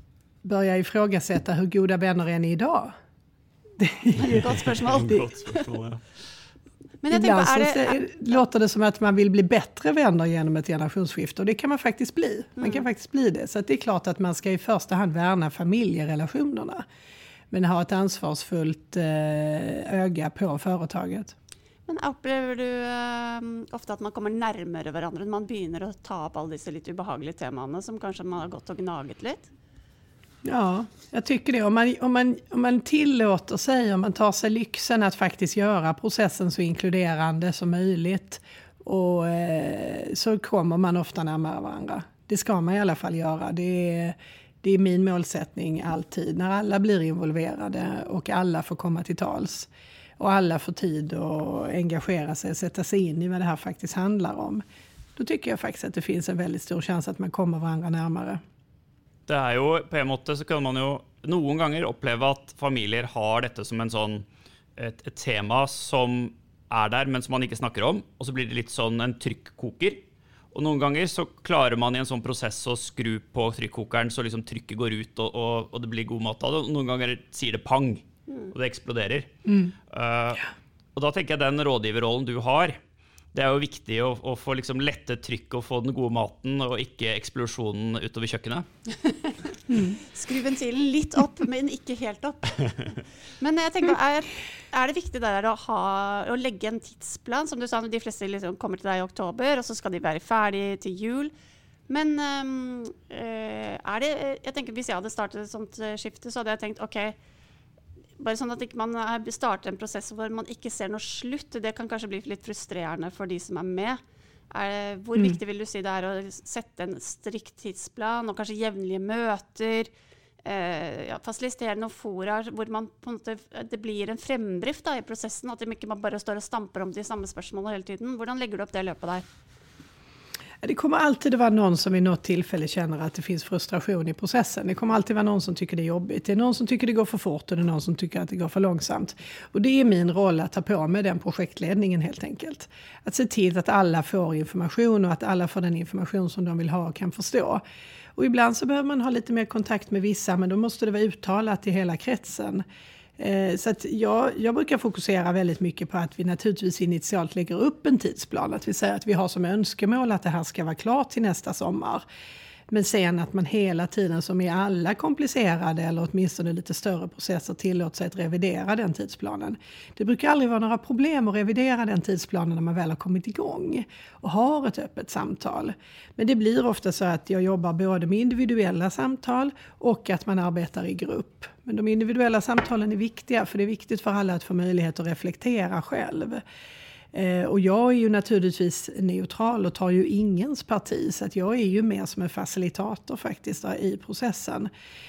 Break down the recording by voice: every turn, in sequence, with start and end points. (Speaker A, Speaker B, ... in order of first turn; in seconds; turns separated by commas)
Speaker A: 0.4-2.9, Speaker A: 3.8-4.6, Speaker B: 4.2-5.7, Speaker C: 4.9-6.0, Speaker B: 7.0-8.0, Speaker A: 7.1-16.8, Speaker B: 12.6-12.8, Speaker A: 17.5-21.3, Speaker B: 21.9-29.5, Speaker A: 30.4-54.6, Speaker A: 55.1-58.4, Speaker C: 59.3-64.2, Speaker C: 64.8-70.0, Speaker C: 70.5-79.3, Speaker C: 79.9-82.8, Speaker C: 83.3-88.7, Speaker B: 89.9-101.3, Speaker B: 101.9-107.2, Speaker B: 108.2-119.9, Speaker B: 120.4-129.2, Speaker A: 130.6-147.6, Speaker A: 148.2-152.6, Speaker A: 153.2-162.0, Speaker A: 162.7-186.4, Speaker A: 187.1-194.7